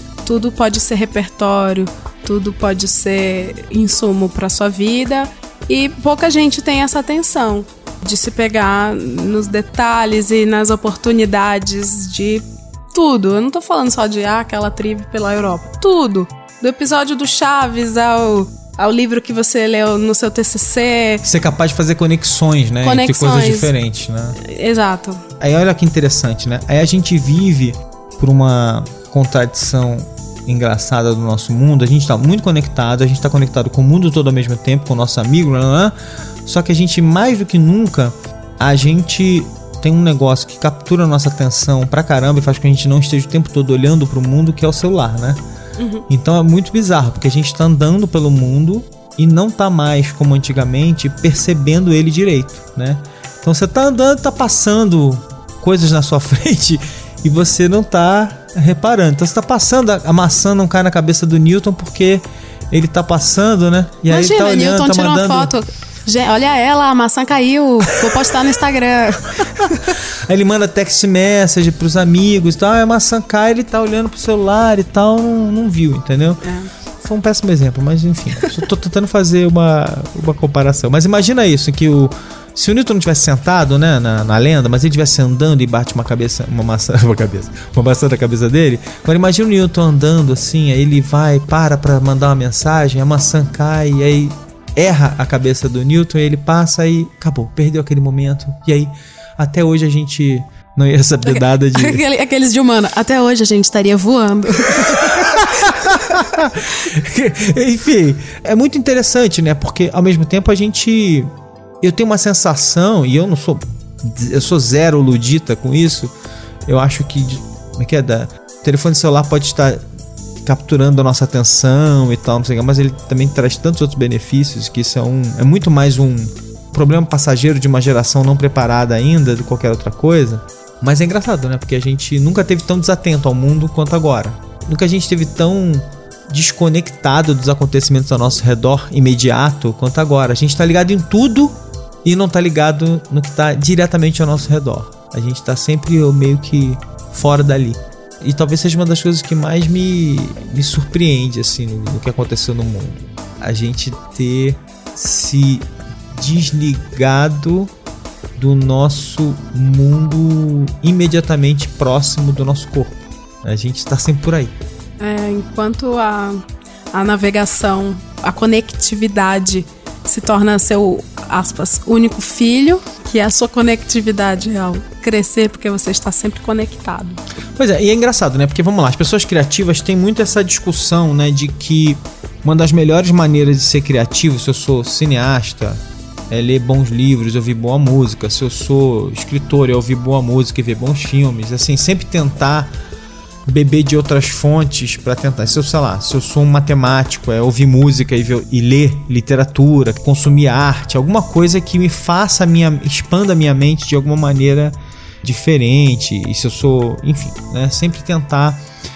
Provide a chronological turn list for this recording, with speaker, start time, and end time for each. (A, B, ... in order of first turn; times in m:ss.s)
0:00.2-0:21.2 A
0:21.2-0:24.4 B
0:22.8-0:23.7 A
0:24.4-0:25.2 A
0:25.4-0:45.4 B
0:45.8-0:46.0 A
0:46.1-1:05.5 B
1:04.1-1:10.0 A
1:09.6-1:16.4 B
1:16.4-1:16.7 A
1:17.0-1:42.0 B
1:41.2-1:46.2 A
1:45.0-1:51.3 B
1:51.8-1:56.1 B
1:56.6-1:59.8 B
2:00.4-2:37.7 B
2:38.4-2:44.5 B
2:45.0-2:46.4 A
2:46.9-2:57.2 A
2:57.6-3:12.7 B
3:13.4-3:28.6 B